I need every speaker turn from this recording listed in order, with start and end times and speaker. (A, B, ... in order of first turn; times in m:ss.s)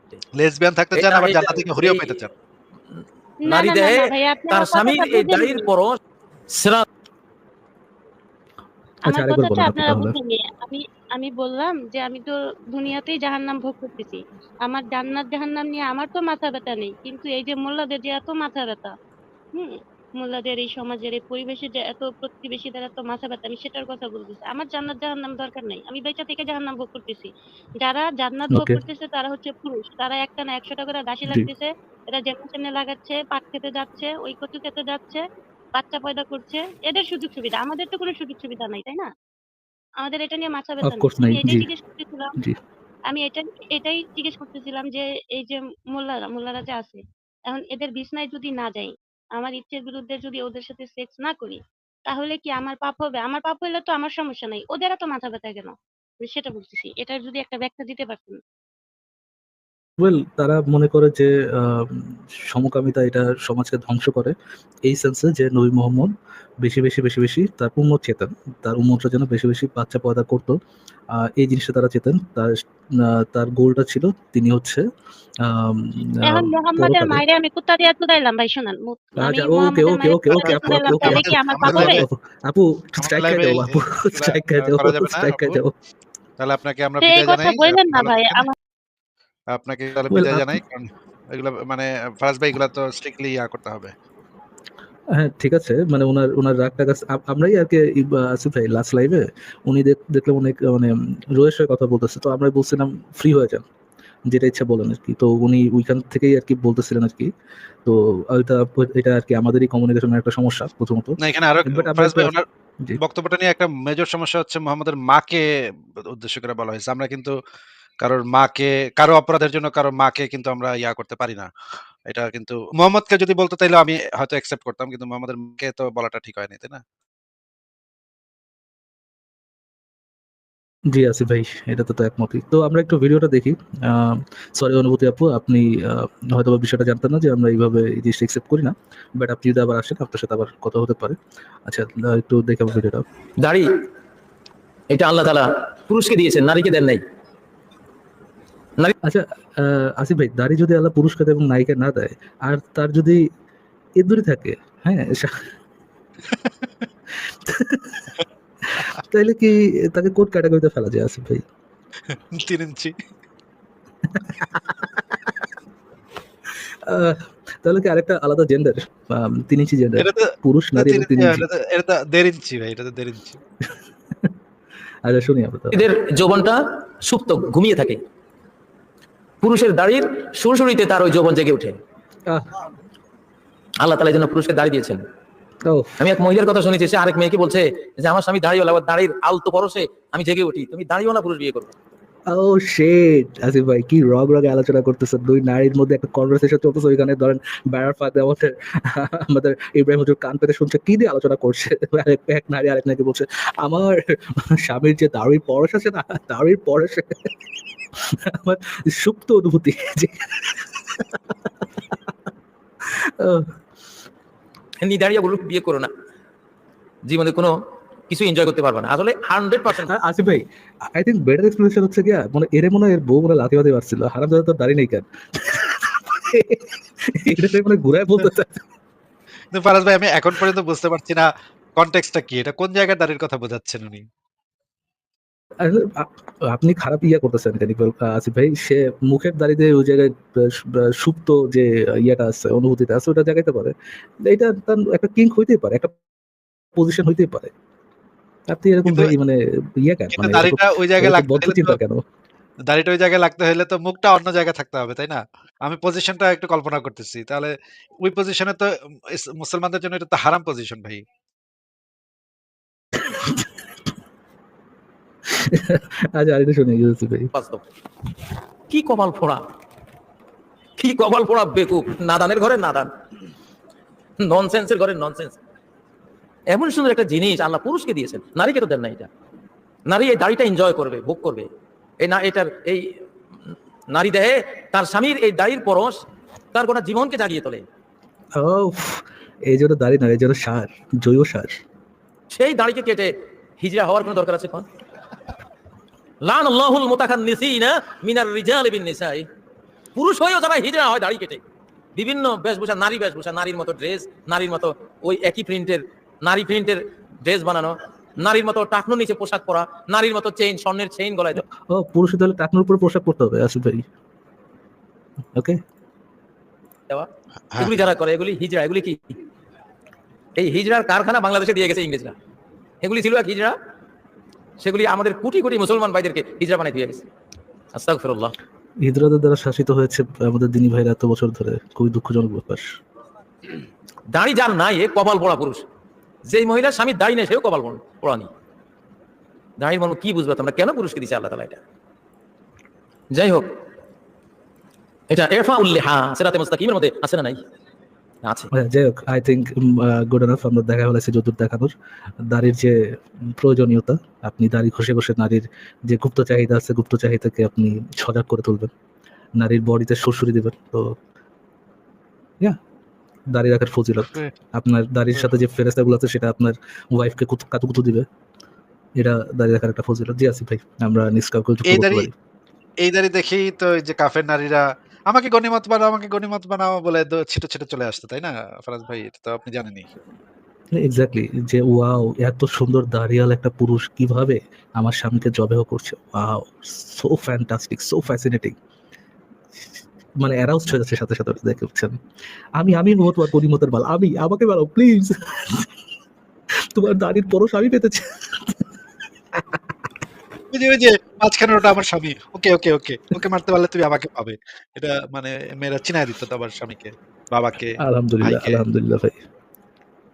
0:00.4-0:02.3 A
0:00.9-0:02.2 B
0:02.9-0:06.0 B
0:03.4-0:05.7 C
0:06.5-0:06.8 B
0:09.0-0:10.1 D
0:09.1-0:18.9 C
0:19.5-0:35.2 C
0:28.5-0:28.8 D
0:35.7-0:39.1 C
0:40.0-0:42.4 C
0:40.8-0:41.7 D
0:43.1-0:58.4 C
1:00.0-1:04.3 D
1:04.9-1:10.6 D
1:11.1-1:14.8 D
1:15.4-1:17.2 D
1:16.2-1:22.0 C
1:19.2-1:25.7 D
1:20.4-1:22.0 A
1:23.0-1:25.6 A
1:26.4-1:28.4 A
1:27.0-1:28.5 C
1:29.5-1:33.9 A
1:30.1-1:30.6 D
1:35.1-1:43.6 D
1:44.3-1:47.3 D
1:47.8-1:53.0 D
1:51.2-1:52.4 A
1:53.0-1:55.4 A
1:56.0-1:57.3 A
1:58.0-2:01.5 A
2:02.1-2:06.8 A
2:10.9-2:23.0 D
2:23.4-2:23.7 B
2:24.9-2:27.0 B
2:29.0-2:33.3 D
2:34.0-2:35.4 D
2:37.4-2:38.1 D
2:38.7-2:41.4 D
2:42.1-2:42.9 A
2:44.0-2:45.3 D
2:46.8-2:51.4 D
2:50.0-2:53.4 A
2:53.6-2:54.3 D
2:55.0-2:55.9 D
2:55.7-2:58.0 B
2:59.4-3:01.8 B
3:03.8-3:05.0 B
3:05.7-3:06.0 D
3:06.0-3:11.7 B
3:12.3-3:27.4 D
3:28.0-3:32.1 D
3:32.8-3:33.5 D
3:34.8-3:35.9 B
3:37.0-3:37.5 B
3:38.1-3:39.9 B
3:39.8-3:48.6 D
3:49.5-3:54.0 A
3:55.6-4:06.0 D
4:06.8-4:07.5 D
4:08.5-4:12.0 D
4:08.8-4:09.1 A
4:10.1-4:11.8 A
4:12.7-4:21.0 A
4:23.0-4:23.6 D
4:25.3-4:27.3 D
4:27.3-4:27.6 B
4:28.7-4:29.4 B
4:30.8-4:32.9 B
4:34.2-4:35.4 B
4:36.5-4:39.1 B
4:39.9-4:41.5 B
4:42.0-4:43.0 B
4:43.9-4:46.0 B
4:46.5-4:47.6 B
4:48.4-4:51.6 D
4:52.3-4:54.6 B
4:56.2-4:59.3 B
4:59.9-5:01.4 B
5:02.0-5:11.4 B
5:11.3-5:13.8 D
5:15.4-5:15.6 D
5:16.9-5:19.1 B
5:17.5-5:17.8 A
5:20.4-5:22.1 B
5:22.8-5:23.6 B
5:24.6-5:27.0 B
5:27.7-5:28.3 B
5:28.8-5:32.8 D
5:34.1-5:35.6 B
5:36.2-5:38.3 B
5:39.6-5:41.6 B
5:43.1-5:43.4 B
5:45.1-5:47.4 B
5:48.2-5:48.5 B
5:48.5-5:51.7 D
5:52.2-5:58.7 D
5:59.4-6:01.0 D
6:03.3-6:08.1 D
6:09.0-6:12.1 D
6:11.6-6:12.1 A
6:12.8-6:19.9 A
6:20.8-6:28.6 D
6:30.2-6:32.0 D
6:32.6-6:35.7 D
6:36.7-6:38.7 D
6:39.3-6:39.7 D
6:40.5-6:48.6 A
6:47.8-6:49.2 D